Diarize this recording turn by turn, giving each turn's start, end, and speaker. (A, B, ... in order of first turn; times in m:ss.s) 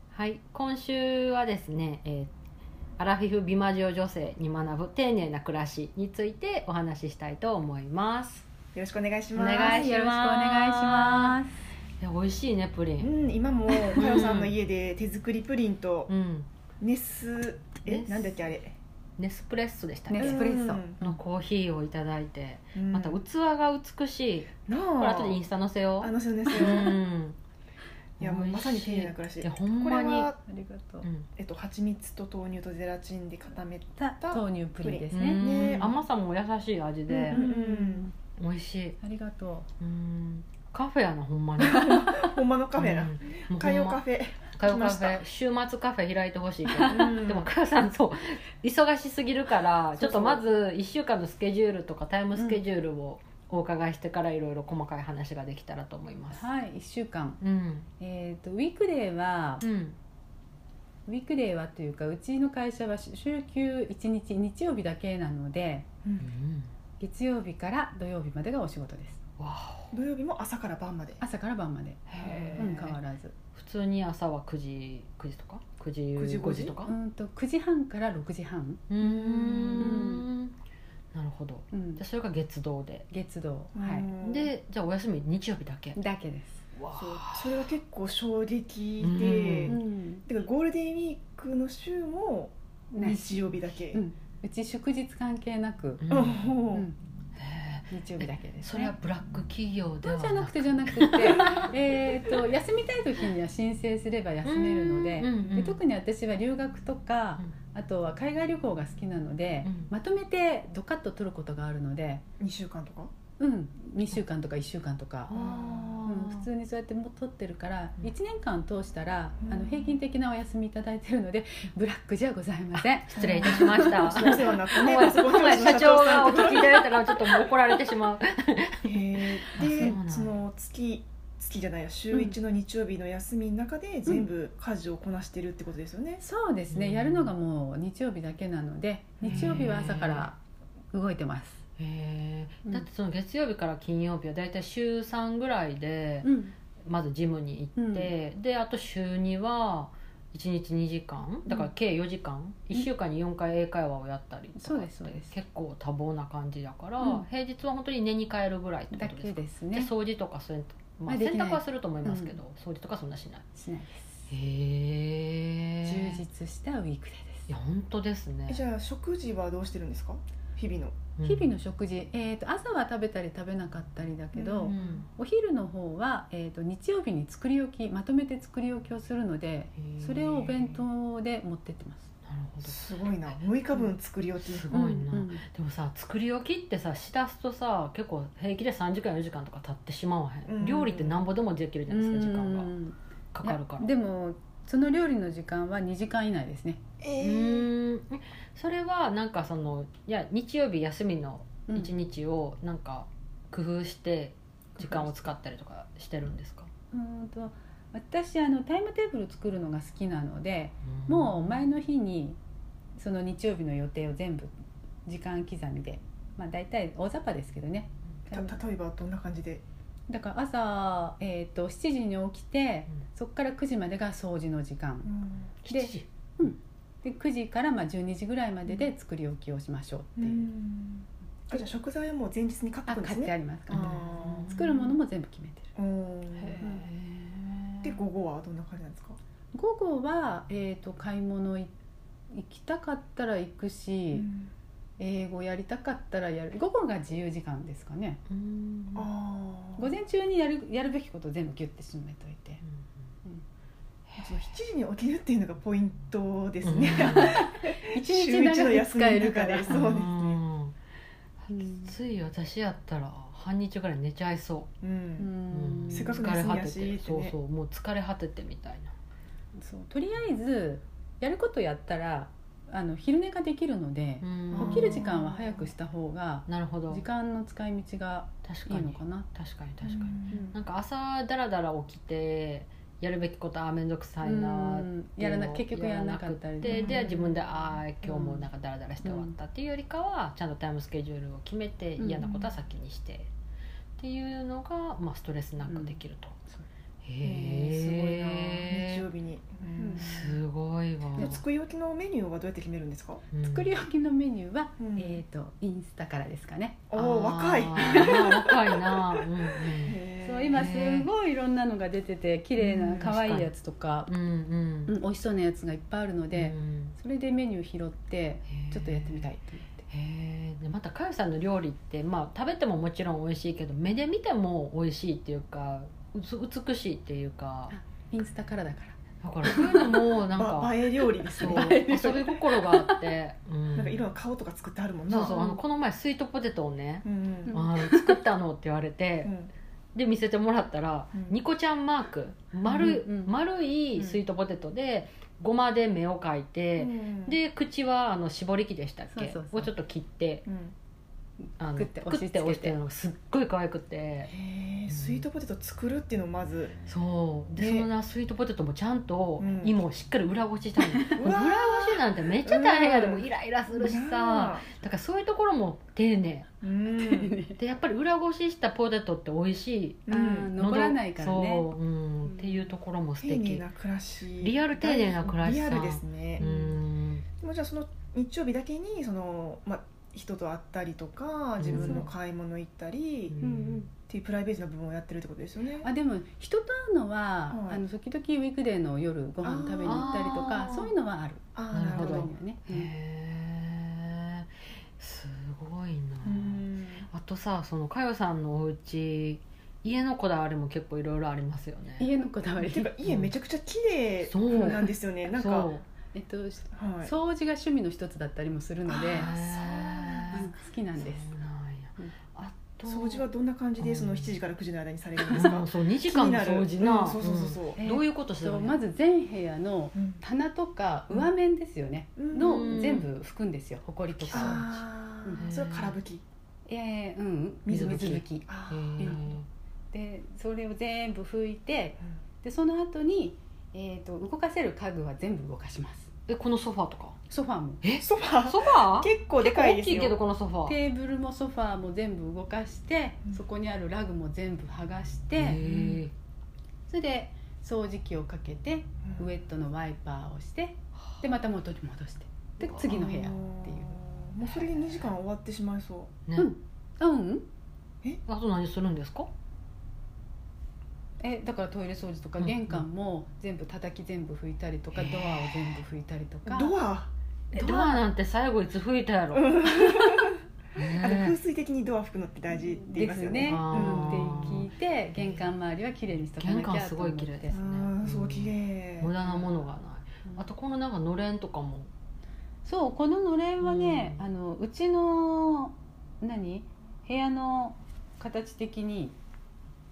0:00.1-0:02.3 A
0:03.0-0:08.5 A
0:08.7-0:09.8 B
0:09.4-0:11.4 A
0:09.4-0:11.6 C
0:12.0-0:13.1 A
0:13.0-0:16.1 B
0:13.8-0:14.6 A
0:16.1-0:16.5 A
0:16.8-0:18.8 B
0:17.8-0:18.4 A
0:19.2-0:20.4 A
0:20.1-0:21.2 C
0:20.2-0:21.0 B
0:21.0-0:27.4 A
0:22.8-0:23.2 B
0:24.6-0:25.4 B
0:26.0-0:27.0 B
0:26.6-0:26.9 C
0:28.2-0:30.3 A
0:28.2-0:30.4 B
0:30.5-0:31.1 C
0:31.0-0:31.3 A
0:31.4-0:36.0 B
0:34.0-0:35.9 C
0:35.1-0:37.4 A
0:37.1-0:38.1 B
0:37.3-0:38.1 C
0:38.4-0:39.0 A
0:39.0-0:39.7 C
0:39.8-0:42.2 A
0:41.6-0:45.2 B
0:42.8-0:44.0 A
0:44.6-0:56.4 A
0:46.8-0:47.5 B
0:50.0-0:50.5 B
0:52.3-0:52.6 C
0:56.3-0:57.4 C
0:57.4-0:57.9 A
0:58.0-0:59.6 C
0:59.6-1:00.0 A
1:01.1-1:05.9 C
1:06.0-1:06.3 B
1:06.2-1:06.7 A
1:07.0-1:09.2 C
1:09.4-1:09.9 A
1:09.9-1:11.2 B
1:11.2-1:13.4 C
1:12.1-1:13.0 A
1:12.2-1:12.6 B
1:13.5-1:16.9 A
1:16.2-1:16.8 B
1:16.8-1:20.2 C
1:18.9-1:20.6 A
1:19.5-1:20.1 B
1:21.1-1:23.1 A
1:21.7-1:22.0 C
1:23.1-1:24.1 C
1:23.8-1:24.5 B
1:24.2-1:26.0 A
1:26.0-1:26.6 C
1:26.7-1:27.7 A
1:26.9-1:34.0 B
1:29.0-1:29.8 A
1:29.7-1:30.2 C
1:32.9-1:36.0 C
1:36.0-1:36.5 A
1:36.1-1:36.9 B
1:36.7-1:37.0 C
1:37.4-1:41.7 A
1:37.9-1:39.0 C
1:40.0-1:52.2 C
1:44.4-1:45.8 A
1:49.6-1:49.9 A
1:52.4-1:53.1 B
1:53.4-1:55.4 C
1:55.3-1:56.5 A
1:55.3-1:56.1 B
1:56.0-2:04.6 C
1:59.4-1:59.9 B
2:03.1-2:10.3 A
2:03.2-2:07.4 B
2:08.8-2:16.2 B
2:16.2-2:20.4 C
2:16.7-2:17.3 A
2:19.2-2:19.6 B
2:19.2-2:20.3 A
2:20.9-2:21.6 C
2:21.8-2:26.3 A
2:26.2-2:26.5 C
2:26.8-2:43.4 A
2:27.8-2:28.1 C
2:34.6-2:35.4 C
2:37.0-2:37.3 C
2:38.9-2:39.9 C
2:41.1-2:42.4 C
2:43.6-2:44.2 C
2:44.3-2:46.2 A
2:45.8-2:47.5 C
2:47.5-2:48.6 A
2:48.5-2:51.0 B
2:51.2-2:51.5 A
2:51.2-3:02.1 C
2:54.3-2:55.0 B
2:54.7-2:55.1 A
2:59.8-3:00.8 A
3:02.2-3:03.4 A
3:02.6-3:04.6 B
3:04.3-3:12.7 A
3:04.7-3:05.4 C
3:10.4-3:11.2 B
3:11.9-3:16.8 C
3:13.3-3:13.9 A
3:17.0-3:17.7 B
3:17.2-3:26.7 A
3:21.7-3:21.9 C
3:24.8-3:25.1 C
3:26.9-3:32.4 C
3:30.9-3:31.6 A
3:33.0-3:34.5 C
3:35.1-3:38.6 C
3:38.3-3:39.6 B
3:40.1-3:45.1 C
3:45.1-3:45.5 B
3:45.6-3:46.1 A
3:45.7-3:50.5 C
3:50.2-3:54.7 B
3:52.9-3:55.7 C
3:53.7-3:54.6 A
3:55.8-3:56.8 B
3:56.4-3:58.0 A
3:56.5-3:56.9 C
3:57.8-3:59.2 B
3:59.5-4:01.7 C
4:02.3-4:04.3 C
4:04.1-4:04.5 B
4:05.0-4:08.2 C
4:08.3-4:09.1 A
4:08.9-4:09.9 B
4:09.8-4:12.6 C
4:14.1-4:14.4 A
4:14.2-4:20.4 B
4:16.6-4:17.4 A
4:17.0-4:20.1 C
4:19.7-4:20.8 A
4:21.4-4:24.7 A
4:21.5-4:21.9 C
4:24.8-4:25.3 B
4:25.2-4:26.3 C
4:25.5-4:28.9 A
4:25.9-4:27.4 B
4:29.6-4:39.3 C
4:34.2-4:35.1 A
4:34.5-4:35.6 B
4:36.5-4:37.1 A
4:38.4-4:53.3 A
4:39.8-4:40.4 B
4:40.3-4:40.6 C
4:44.2-4:48.4 C
4:46.6-4:47.2 B
4:49.0-4:49.3 C
4:52.0-4:52.5 C
4:54.0-4:56.4 A
4:55.6-4:56.0 C
4:57.0-4:59.1 A
4:57.2-5:00.4 B
4:59.8-5:00.1 C
5:00.0-5:01.4 A
5:01.1-5:03.2 B
5:03.3-5:03.7 A
5:03.4-5:06.8 C
5:04.8-5:05.2 B
5:06.9-5:10.7 B
5:06.9-5:10.0 A
5:07.8-5:08.3 C
5:10.2-5:14.1 C
5:10.5-5:11.1 A
5:12.8-5:13.5 A
5:14.1-5:15.0 A
5:14.9-5:19.8 C
5:16.3-5:17.0 A
5:18.5-5:19.3 A
5:19.9-5:27.7 A
5:27.7-5:29.9 C
5:29.2-5:34.1 A
5:29.6-5:32.3 B
5:31.3-5:33.1 C
5:33.8-5:35.4 B
5:35.1-5:39.3 A
5:35.3-5:35.6 C
5:37.0-5:37.6 B
5:37.5-5:38.2 C
5:39.2-5:39.5 B
5:39.9-5:50.4 A
5:42.6-5:43.3 C
5:46.8-5:47.4 B
5:49.1-5:49.7 C
5:50.4-5:50.7 B
5:51.4-5:52.8 C
5:51.6-5:54.3 A
5:54.3-5:56.8 B
5:54.9-5:55.2 A
5:56.9-6:06.5 A
5:57.6-5:57.9 B
5:59.4-5:59.8 B
6:00.9-6:01.2 C
6:01.2-6:04.7 B
6:06.6-6:07.3 B
6:07.0-6:07.6 C
6:07.6-6:13.6 A
6:10.1-6:10.5 B
6:10.1-6:11.7 C
6:12.3-6:12.6 C
6:13.2-6:16.4 B
6:14.4-6:17.2 A
6:16.4-6:16.8 C
6:17.4-6:25.9 B
6:21.6-6:22.1 A
6:21.8-6:22.1 C
6:23.3-6:23.9 A
6:25.8-6:32.9 C
6:27.5-6:27.8 B
6:29.4-6:30.1 B
6:29.8-6:30.9 A
6:31.6-6:32.3 B
6:31.7-6:42.1 A
6:36.2-6:37.1 B
6:42.0-6:42.9 C
6:42.6-6:45.7 B
6:43.0-6:43.3 A
6:44.2-6:45.8 A
6:46.1-6:49.3 C
6:46.7-6:47.1 B
6:48.9-6:50.4 B
6:49.1-6:53.2 A
6:50.3-6:51.3 C
6:52.8-6:57.8 B
6:53.8-6:54.4 A
6:55.2-6:58.8 A
6:57.8-7:05.5 C
6:59.9-7:00.2 B
7:02.2-7:03.0 B
7:02.4-7:03.1 A
7:04.1-7:04.8 A
7:04.3-7:06.2 B
7:05.4-7:06.0 A
7:06.7-7:08.5 C
7:07.7-7:09.4 B
7:07.7-7:09.4 A
7:09.0-7:09.2 C
7:09.9-7:16.1 C
7:16.3-7:17.2 A
7:17.3-7:17.8 C
7:17.8-7:20.8 A
7:18.0-7:20.2 B
7:20.6-7:25.6 C
7:25.4-7:26.1 A
7:25.6-7:26.0 B
7:26.9-7:34.0 C
7:29.0-7:29.3 B
7:32.6-7:32.9 A
7:32.8-7:36.1 B
7:36.3-7:36.5 A
7:36.4-7:37.4 C
7:38.3-7:39.3 A
7:41.2-7:46.8 C
7:42.4-7:42.8 A
7:44.9-7:45.8 A
7:46.4-7:47.1 B
7:47.5-7:51.4 A
7:47.6-7:48.0 C
7:49.3-7:54.5 B
7:52.9-7:57.6 C
7:53.4-7:55.5 A
7:56.4-8:01.9 A
7:57.5-7:59.1 B
7:59.2-7:59.6 C
8:02.6-8:09.1 C
8:03.6-8:04.2 A